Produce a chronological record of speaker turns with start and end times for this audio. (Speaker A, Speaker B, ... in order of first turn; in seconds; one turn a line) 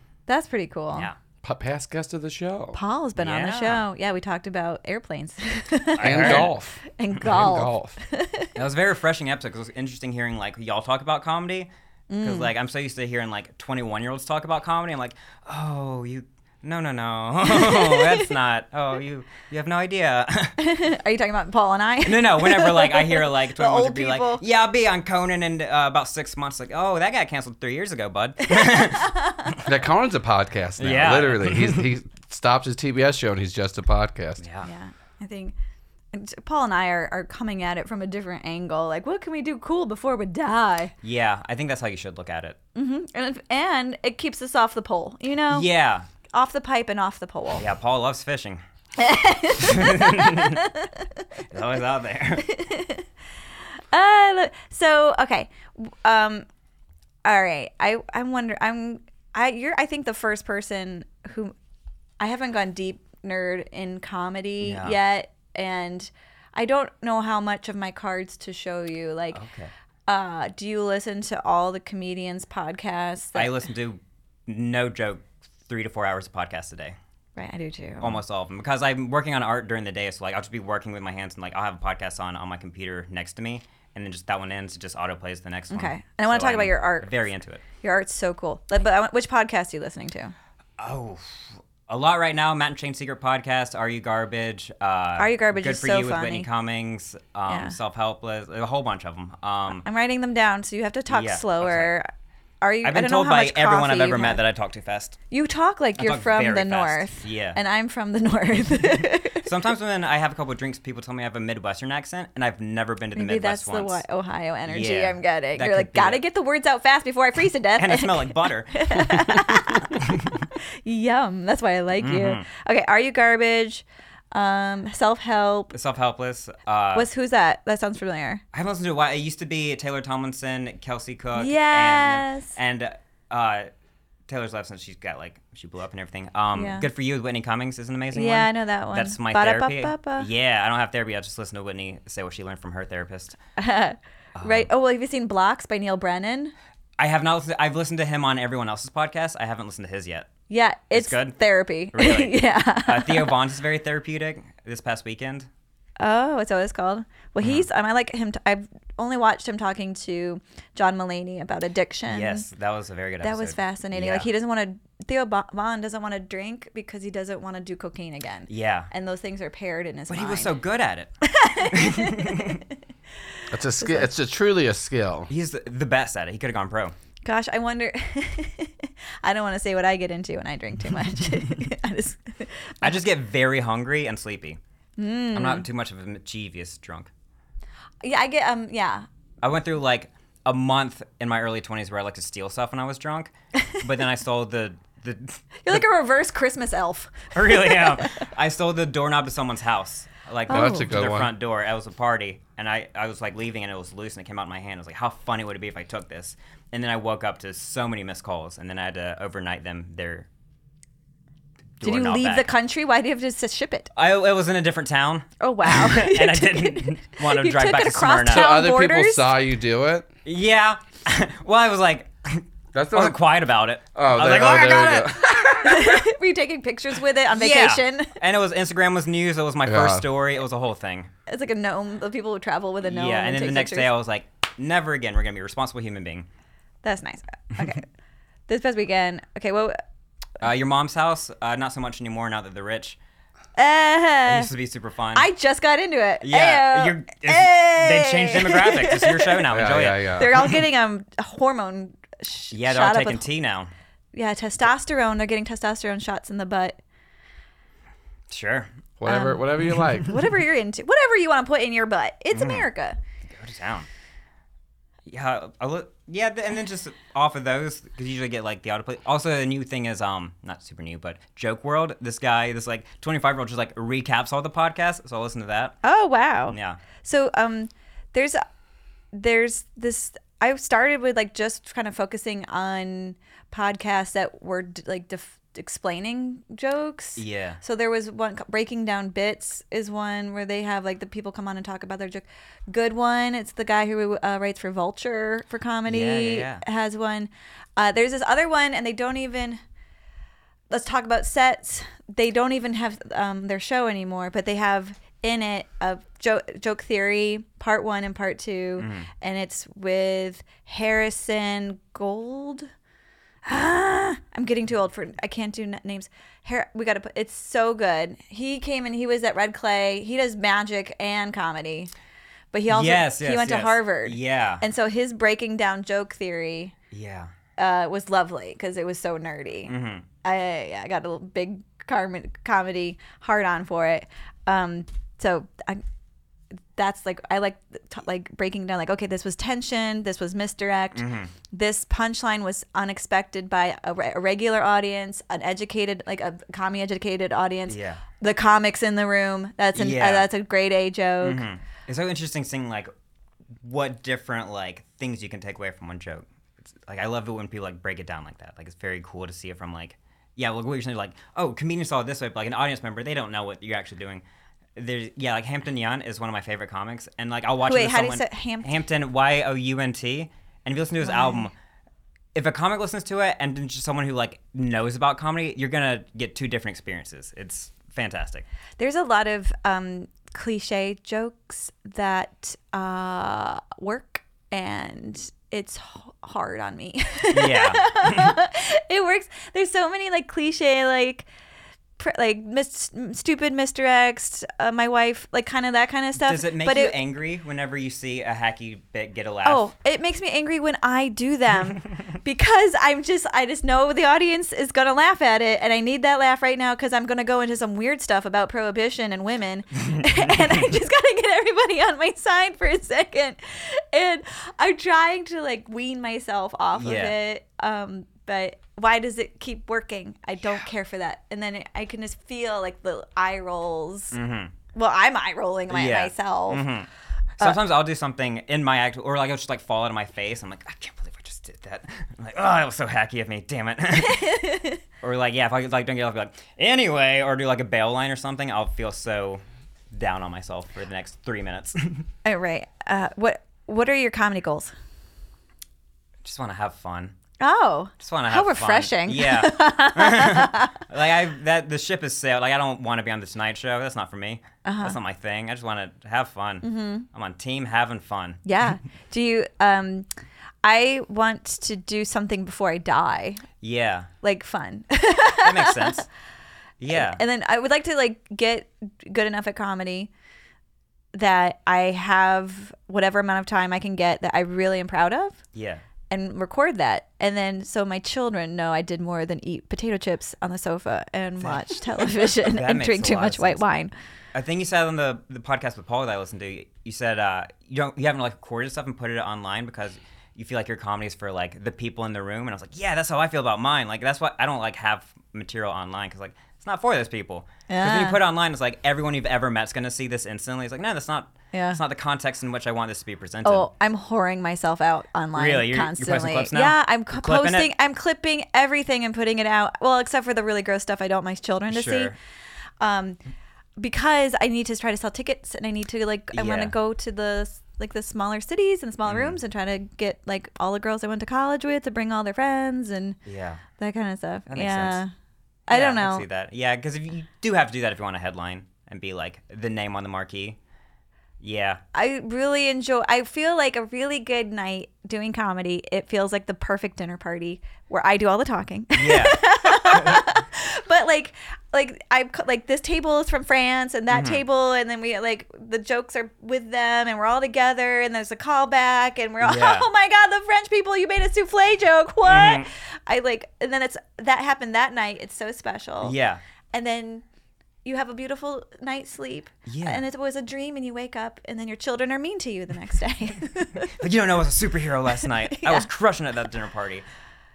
Speaker A: 0.3-1.1
Speaker B: 1.4-2.8
Speaker A: 2.7-8.5
Speaker C: 3.2-3.8
Speaker C: 6.0-6.5
Speaker B: 6.0-8.0
Speaker C: 8.6-11.7
Speaker A: 12.1-12.5
Speaker C: 12.2-20.6
Speaker A: 17.5-18.3
Speaker A: 20.6-24.4
Speaker C: 22.1-29.7
Speaker A: 28.4-29.5
Speaker B: 29.6-34.4
Speaker C: 30.8-31.9
Speaker C: 34.4-34.7
Speaker A: 34.6-35.5
Speaker A: 36.1-40.9
Speaker C: 41.0-42.6
Speaker A: 42.8-45.7
Speaker C: 45.5-46.1
Speaker A: 46.3-47.7
Speaker C: 47.6-48.6
Speaker A: 49.0-51.1
Speaker C: 49.6-50.6
Speaker C: 51.5-52.5
Speaker A: 52.4-53.1
Speaker A: 53.9-56.5
Speaker A: 57.2-61.5
Speaker A: 62.2-69.4
Speaker C: 64.6-65.0
Speaker C: 69.3-69.7
Speaker A: 70.1-73.6
Speaker C: 73.3-77.0
Speaker A: 77.4-78.2
Speaker C: 78.0-87.6
Speaker A: 85.7-87.1
Speaker A: 87.8-90.3
Speaker C: 90.8-99.8
Speaker A: 95.2-96.5
Speaker A: 97.5-97.8
Speaker A: 99.8-102.1
Speaker C: 101.1-101.9
Speaker A: 102.6-104.4
Speaker C: 102.8-105.2
Speaker A: 105.3-109.5
Speaker C: 106.0-107.6
Speaker C: 109.4-114.0
Speaker A: 113.2-125.7
Speaker C: 114.7-116.2
Speaker C: 117.8-120.4
Speaker C: 122.0-122.5
Speaker C: 125.7-127.1
Speaker A: 126.9-128.4
Speaker C: 128.5-133.7
Speaker A: 131.3-132.6
Speaker C: 134.3-143.4
Speaker A: 136.5-136.9
Speaker A: 138.1-140.3
Speaker A: 143.6-146.5
Speaker C: 144.3-144.7
Speaker C: 147.0-150.3
Speaker A: 150.5-153.3
Speaker C: 150.9-155.5
Speaker A: 156.0-162.5
Speaker C: 157.4-157.7
Speaker C: 162.1-164.3
Speaker A: 163.2-170.5
Speaker C: 168.5-168.9
Speaker C: 170.1-171.1
Speaker A: 171.2-172.6
Speaker C: 171.6-172.6
Speaker B: 173.5-175.3
Speaker A: 173.8-174.1
Speaker C: 175.3-176.9
Speaker A: 177.2-183.0
Speaker C: 182.8-184.6
Speaker A: 185.0-185.7
Speaker C: 185.3-187.1
Speaker A: 188.0-189.1
Speaker C: 189.4-195.8
Speaker A: 195.6-198.2
Speaker C: 197.3-210.3
Speaker A: 200.5-200.9
Speaker B: 200.5-201.3
Speaker C: 211.8-212.5
Speaker A: 211.8-213.9
Speaker C: 214.0-218.5
Speaker A: 215.4-219.3
Speaker B: 218.3-220.1
Speaker C: 220.2-225.5
Speaker B: 222.7-223.2
Speaker B: 223.9-225.9
Speaker A: 225.5-228.2
Speaker C: 227.3-231.1
Speaker B: 229.7-230.1
Speaker A: 231.3-233.9
Speaker C: 232.8-236.3
Speaker A: 236.8-237.9
Speaker A: 238.5-239.8
Speaker C: 240.4-243.0
Speaker A: 243.6-244.5
Speaker C: 244.3-245.3
Speaker A: 245.2-249.5
Speaker C: 246.2-250.5
Speaker B: 249.5-250.3
Speaker A: 250.1-253.3
Speaker C: 252.5-253.7
Speaker A: 254.1-256.8
Speaker C: 258.3-258.7
Speaker B: 259.0-260.2
Speaker A: 259.1-263.0
Speaker C: 259.6-260.1
Speaker C: 262.3-262.7
Speaker C: 263.3-263.9
Speaker C: 265.1-275.8
Speaker A: 275.8-278.4
Speaker C: 276.5-276.8
Speaker A: 279.1-299.6
Speaker C: 287.2-287.6
Speaker C: 295.9-296.6
Speaker A: 300.7-312.7
Speaker C: 308.8-309.1
Speaker A: 313.4-321.9
Speaker A: 322.5-326.7
Speaker C: 322.7-324.6
Speaker C: 326.9-327.3
Speaker A: 327.6-335.8
Speaker C: 329.7-330.1
Speaker A: 336.8-351.4
Speaker C: 340.9-341.3
Speaker C: 347.7-348.0
Speaker C: 349.8-350.3
Speaker C: 351.2-352.9
Speaker C: 353.6-364.2
Speaker C: 364.8-371.5
Speaker A: 367.6-368.7
Speaker A: 371.0-371.5
Speaker C: 372.4-378.4
Speaker A: 378.8-391.3
Speaker C: 387.3-388.4
Speaker A: 392.0-397.0
Speaker C: 396.2-399.7
Speaker A: 399.4-424.1
Speaker C: 409.9-410.3
Speaker C: 416.8-417.2
Speaker C: 424.1-424.5
Speaker A: 424.7-426.6
Speaker C: 425.7-434.4
Speaker A: 434.0-434.8
Speaker C: 435.0-442.1
Speaker A: 442.2-444.7
Speaker C: 446.2-447.1
Speaker A: 447.4-450.8
Speaker C: 448.0-458.4
Speaker A: 454.6-455.0
Speaker A: 456.6-457.1
Speaker A: 458.4-460.1
Speaker A: 460.6-463.4
Speaker C: 463.6-464.1
Speaker A: 464.2-466.0
Speaker C: 465.4-466.1
Speaker C: 466.8-467.2
Speaker A: 466.9-470.1
Speaker A: 471.1-475.4
Speaker C: 475.5-475.8
Speaker A: 476.1-483.9
Speaker C: 481.4-483.6
Speaker C: 484.3-503.7
Speaker A: 497.7-498.2
Speaker A: 501.5-501.8
Speaker A: 503.4-512.1
Speaker C: 505.4-507.7
Speaker C: 511.7-512.1
Speaker A: 512.8-513.2
Speaker A: 513.8-523.2
Speaker C: 516.3-516.7
Speaker C: 519.1-519.4
Speaker C: 523.2-523.6
Speaker A: 523.8-525.1
Speaker C: 524.5-525.0
Speaker A: 525.7-526.3
Speaker C: 525.7-530.6
Speaker C: 531.4-531.8
Speaker A: 531.9-556.1
Speaker C: 539.0-540.2
Speaker C: 544.1-544.4
Speaker C: 549.4-549.9
Speaker C: 552.2-552.7
Speaker C: 556.0-556.4
Speaker A: 556.7-557.2
Speaker A: 557.9-563.9
Speaker C: 559.7-560.0
Speaker C: 563.9-567.0
Speaker A: 565.5-565.9